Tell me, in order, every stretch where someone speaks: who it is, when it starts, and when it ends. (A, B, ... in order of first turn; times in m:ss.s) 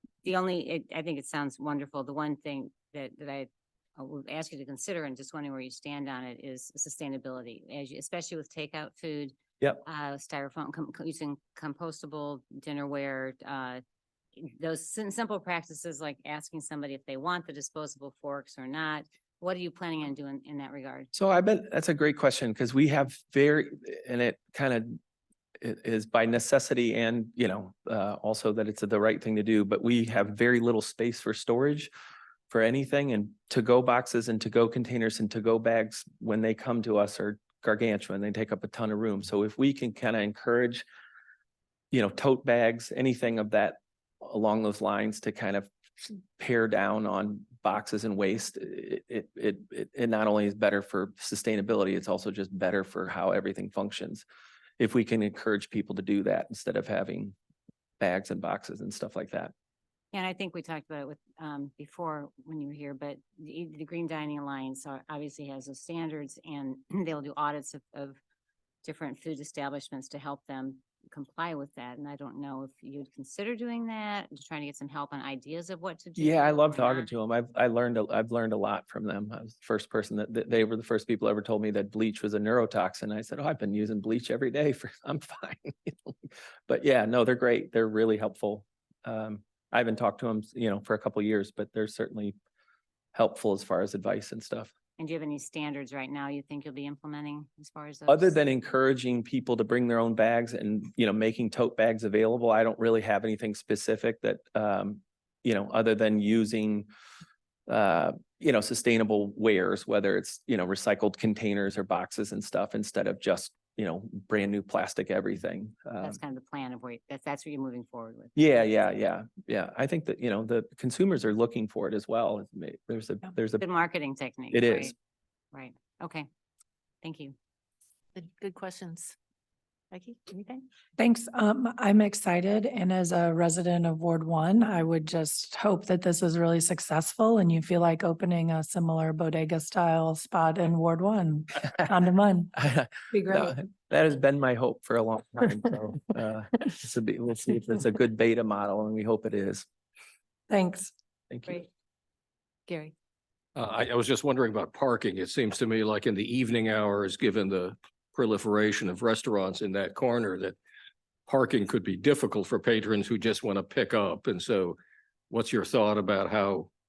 0:00.2-0:13.8 A
0:14.4-0:21.1 A
0:21.1-0:25.0 B
0:25.6-0:31.9 B
0:32.5-0:40.8 B
0:41.9-0:54.2 B
0:54.8-0:57.4 B
0:58.0-0:59.5 B
1:00.1-1:08.2 A
1:08.8-1:17.1 A
1:16.2-1:26.2 B
1:26.7-1:32.4 B
1:33.1-1:34.7 B
1:35.0-1:38.4 A
1:38.1-1:46.9 B
1:47.7-1:56.2 B
1:56.0-1:58.6 A
1:58.4-2:03.7 B
2:03.6-2:04.9 A
2:04.5-2:04.9 B
2:05.5-2:06.3 A
2:07.0-2:07.4 A
2:08.2-2:09.2 C
2:09.9-2:10.6 C
2:11.0-2:22.6 D
2:22.6-2:29.7 B
2:23.1-2:23.5 D
2:30.5-2:30.9 D
2:31.3-2:31.6 B
2:32.7-2:32.9 C
2:33.6-2:40.6 E
2:41.3-2:44.8 E
2:45.3-2:46.7 E